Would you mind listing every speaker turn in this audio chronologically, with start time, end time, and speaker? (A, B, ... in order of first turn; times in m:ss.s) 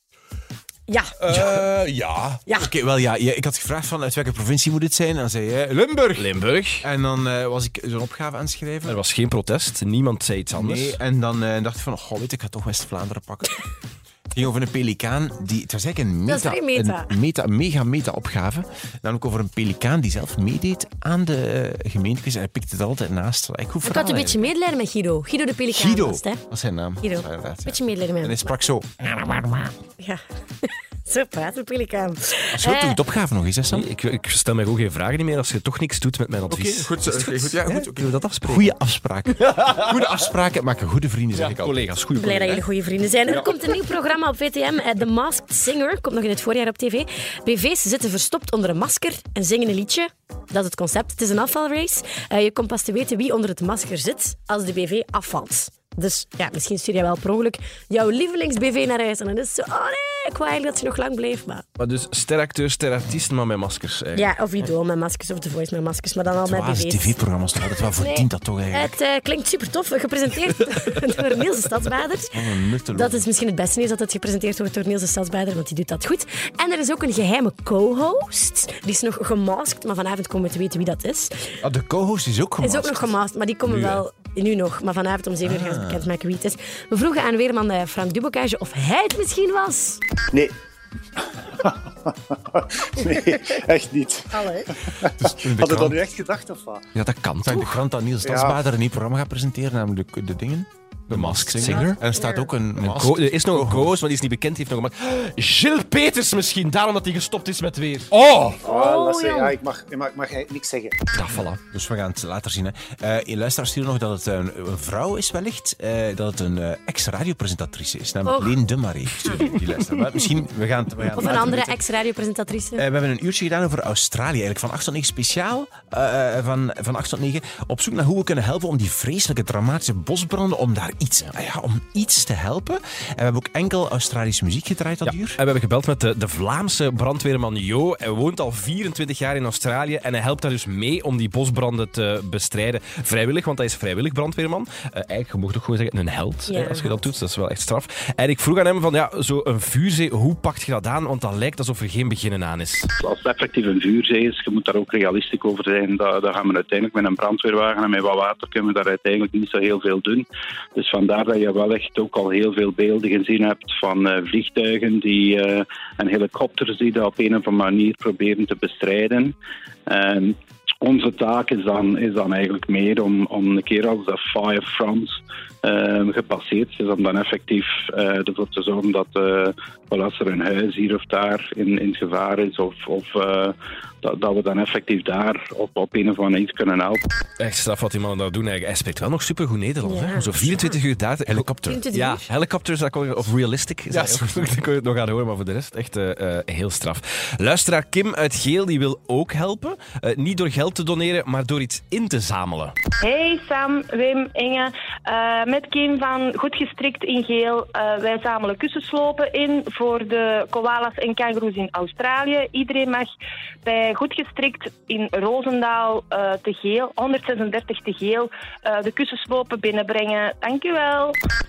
0:00.9-0:01.4 A
0:01.2-0:09.0 B
0:06.2-0:06.8 C
0:08.9-0:11.0 C
0:10.5-0:13.6 B
0:14.3-0:24.4 B
0:16.3-0:17.1 A
0:23.8-0:26.4 A
0:25.7-0:29.7 B
0:27.0-0:28.5 A
0:30.0-0:33.0 A
0:32.5-0:33.9 B
0:33.7-0:38.7 C
0:36.5-0:41.8 B
0:39.4-0:39.8 C
0:41.4-0:42.6 C
0:42.2-1:01.6 A
1:01.8-1:04.3 C
1:04.1-1:07.2 A
1:06.4-1:09.0 B
1:08.0-1:12.4 A
1:12.3-1:13.2 B
1:12.9-1:21.4 A
1:21.6-1:23.1 B
1:22.6-1:30.0 A
1:23.7-1:24.0 B
1:25.4-1:26.1 B
1:31.4-1:36.8 D
1:34.3-1:34.7 A
1:35.2-1:36.0 B
1:36.9-1:37.8 C
1:37.4-1:43.9 B
1:38.2-1:38.6 D
1:41.1-1:42.0 C
1:42.1-1:42.5 A
1:42.8-1:48.6 C
1:48.6-1:50.9 D
1:48.6-1:49.5 A
1:51.1-1:51.6 C
1:51.7-2:01.8 B
1:58.2-1:58.6 A
2:01.1-2:02.8 A
2:02.8-2:15.4 B
2:15.0-2:32.9 C
2:26.5-2:26.9 A
2:33.0-2:49.3 E
2:49.9-3:07.0 E
3:07.4-3:22.7 C
3:09.8-3:10.8 A
3:11.3-3:11.8 B
3:11.6-3:12.2 A
3:13.9-3:14.5 B
3:23.0-3:33.1 F
3:33.6-3:41.2 F